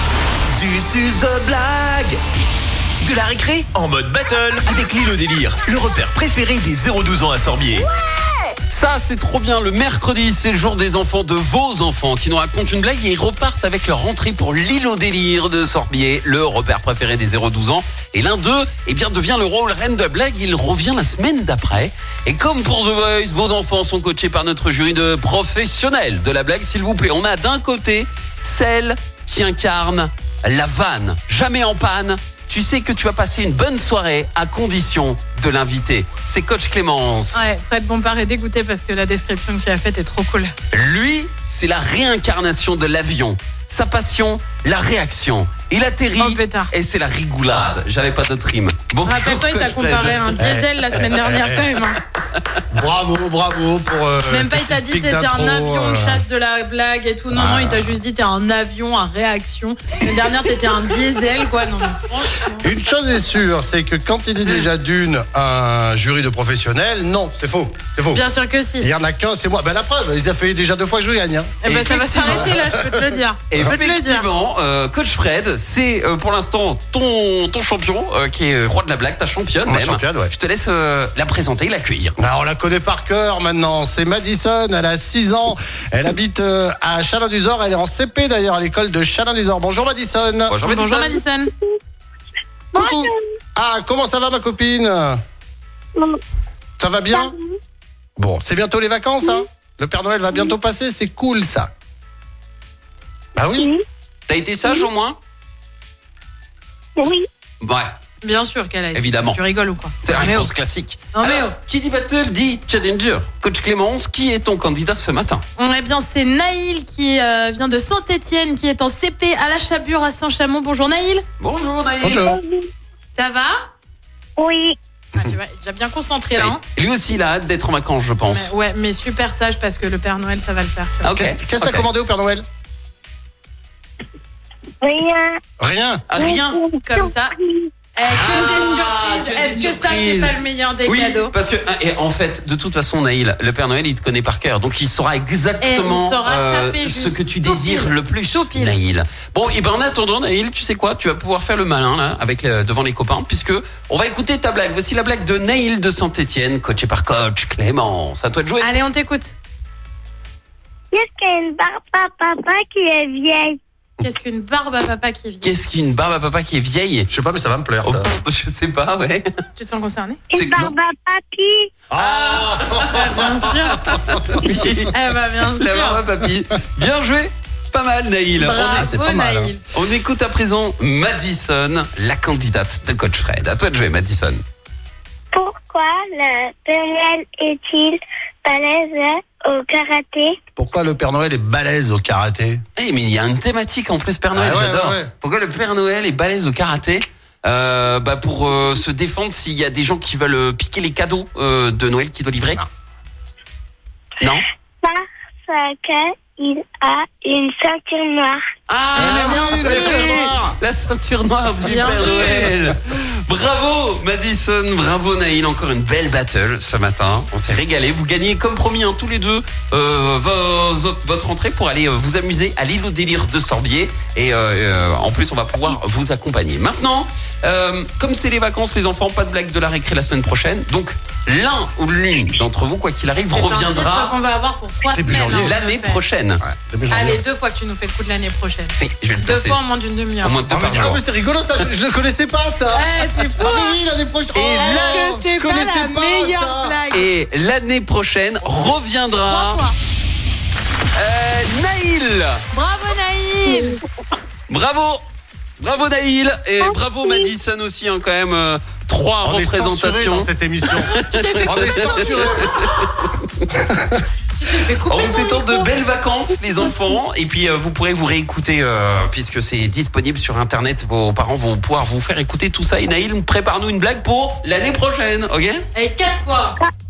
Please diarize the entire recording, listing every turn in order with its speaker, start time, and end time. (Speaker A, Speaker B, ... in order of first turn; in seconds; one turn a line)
Speaker A: 0.6-2.2
Speaker A: 3.0-7.9
Speaker B: 4.8-5.6
Speaker B: 8.7-37.6
Speaker C: 37.3-40.5
Speaker B: 40.7-50.5
Speaker C: 46.2-46.7
Speaker C: 49.0-52.0
Speaker D: 50.4-51.7
Speaker D: 52.7-56.2
Speaker C: 54.3-62.7
Speaker D: 57.3-57.9
Speaker D: 62.6-68.2
Speaker C: 68.1-68.9
Speaker D: 68.8-71.6
Speaker C: 71.6-74.3
Speaker B: 71.7-72.6
Speaker D: 72.2-72.9
Speaker B: 73.5-82.2
Speaker D: 79.7-80.3
Speaker D: 82.2-90.6
Speaker B: 90.5-91.2
Speaker C: 90.6-91.5
Speaker E: 92.7-93.2
Speaker D: 92.8-95.2
Speaker D: 96.8-97.3
Speaker E: 97.1-97.6
Speaker D: 98.2-101.7
Speaker D: 103.4-103.7
Speaker E: 103.5-103.8
Speaker B: 104.3-105.2
Speaker E: 107.0-107.3
Speaker B: 107.6-107.9
Speaker C: 108.2-110.5
Speaker B: 108.9-109.4
Speaker B: 110.0-115.4
Speaker C: 111.1-111.6
Speaker C: 115.6-121.2
Speaker B: 121.4-122.3
Speaker D: 122.0-122.4
Speaker E: 122.1-122.7
Speaker C: 123.2-123.7
Speaker E: 124.4-124.8
Speaker C: 125.2-126.6
Speaker B: 126.3-128.5
Speaker C: 128.3-131.2
Speaker B: 131.0-131.9
Speaker D: 131.1-132.4
Speaker E: 134.8-135.4
Speaker D: 135.6-136.0
Speaker B: 136.1-136.6
Speaker E: 136.2-137.7
Speaker C: 136.8-137.3
Speaker C: 137.9-141.3
Speaker B: 138.1-158.7
Speaker C: 145.6-148.8
Speaker C: 158.6-159.3
Speaker E: 160.9-163.6
Speaker C: 164.0-165.5
Speaker B: 165.4-167.1
Speaker D: 167.1-168.1
Speaker B: 167.8-169.3
Speaker C: 169.6-170.2
Speaker E: 170.3-171.7
Speaker B: 170.3-170.8
Speaker D: 171.9-174.5
Speaker B: 171.9-174.9
Speaker C: 172.9-173.9
Speaker C: 174.8-176.0
Speaker B: 175.5-179.0
Speaker C: 178.3-179.7
Speaker D: 178.6-179.6
Speaker B: 179.7-184.4
Speaker E: 185.3-190.4
Speaker D: 190.6-192.6
Speaker B: 192.8-202.7
Speaker D: 194.3-195.1
Speaker E: 204.8-208.4
Speaker B: 208.7-234.2
Speaker D: 208.9-210.6
Speaker C: 209.0-210.2
Speaker C: 211.6-212.5
Speaker D: 211.9-212.6
Speaker C: 233.3-236.1
Speaker D: 234.9-235.5
Speaker B: 235.2-236.4
Speaker D: 236.4-237.2
Speaker C: 236.9-240.4
Speaker B: 238.8-239.6
Speaker B: 240.2-241.0
Speaker D: 240.5-246.8
Speaker C: 242.7-243.8
Speaker B: 244.3-245.1
Speaker C: 244.5-247.1
Speaker B: 246.9-249.6
Speaker C: 249.3-249.7
Speaker B: 250.9-252.4
Speaker C: 252.5-253.8
Speaker E: 253.5-253.8
Speaker B: 254.5-255.0
Speaker B: 255.6-263.5
Speaker E: 256.6-257.3
Speaker D: 259.2-260.9
Speaker C: 260.9-262.9
Speaker D: 261.4-262.6
Speaker D: 263.6-264.0
Speaker C: 264.4-265.7
Speaker B: 264.9-275.6
Speaker C: 275.8-276.6